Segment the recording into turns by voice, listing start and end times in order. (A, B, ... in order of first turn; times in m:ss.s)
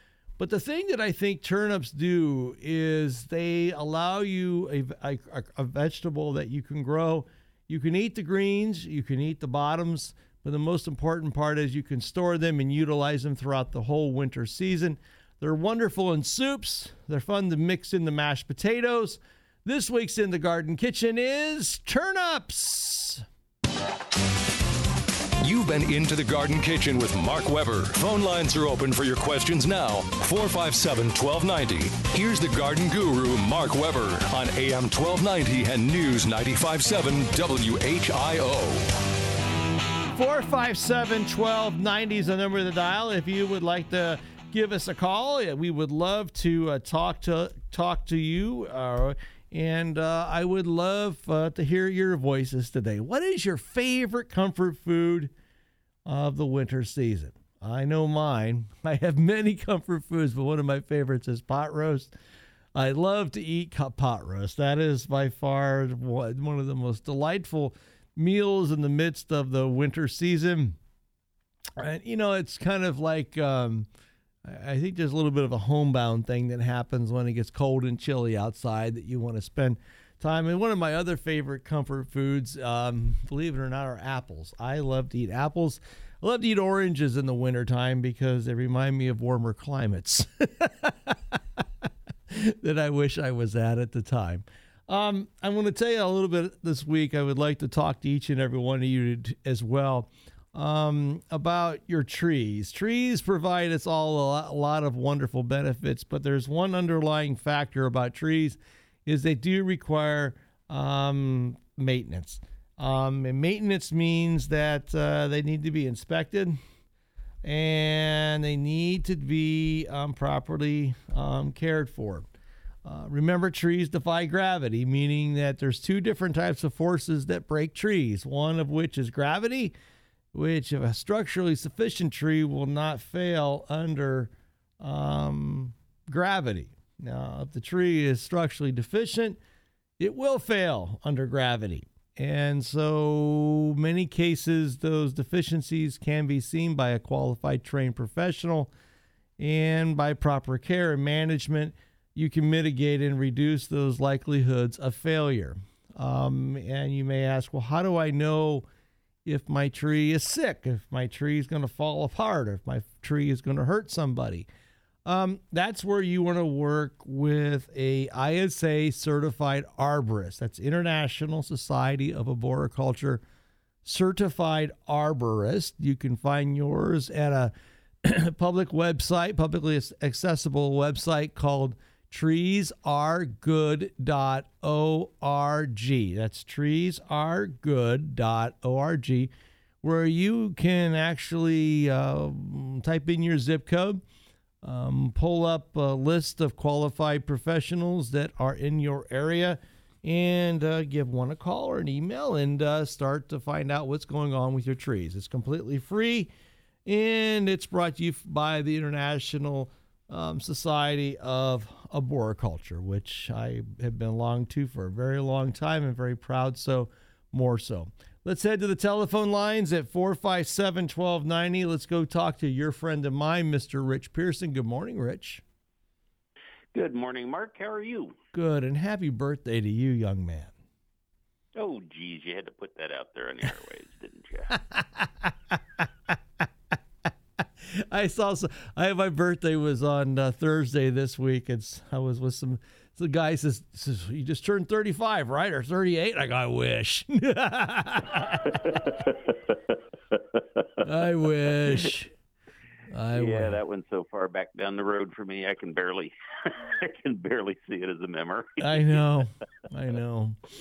0:00.4-0:23.2 A
0:25.4-0:38.9 B
0:40.2-0:55.3 A
0:56.0-1:02.1 A
1:02.7-1:10.8 A
1:11.8-1:13.9 A
1:14.4-1:31.1 A
1:32.3-1:56.6 A
1:57.4-2:02.3 A
2:02.8-2:09.7 A
2:10.3-2:19.4 A
2:20.0-2:28.7 A
2:29.4-2:38.6 A
2:39.2-2:44.5 A
2:45.0-2:53.2 A
2:53.8-2:57.5 A
2:58.0-3:09.3 A
3:09.8-3:14.0 A
3:14.6-3:26.3 A
3:26.8-3:45.4 A
3:46.7-3:48.2 C
3:48.3-3:50.5 A
3:51.6-3:54.5 C
3:54.7-3:55.3 A
3:57.8-4:08.6 A
4:08.4-4:09.6 C
4:10.1-4:10.4 C
4:10.8-4:12.1 A
4:12.9-4:13.6 A
4:13.1-4:19.0 C
4:18.6-4:20.4 A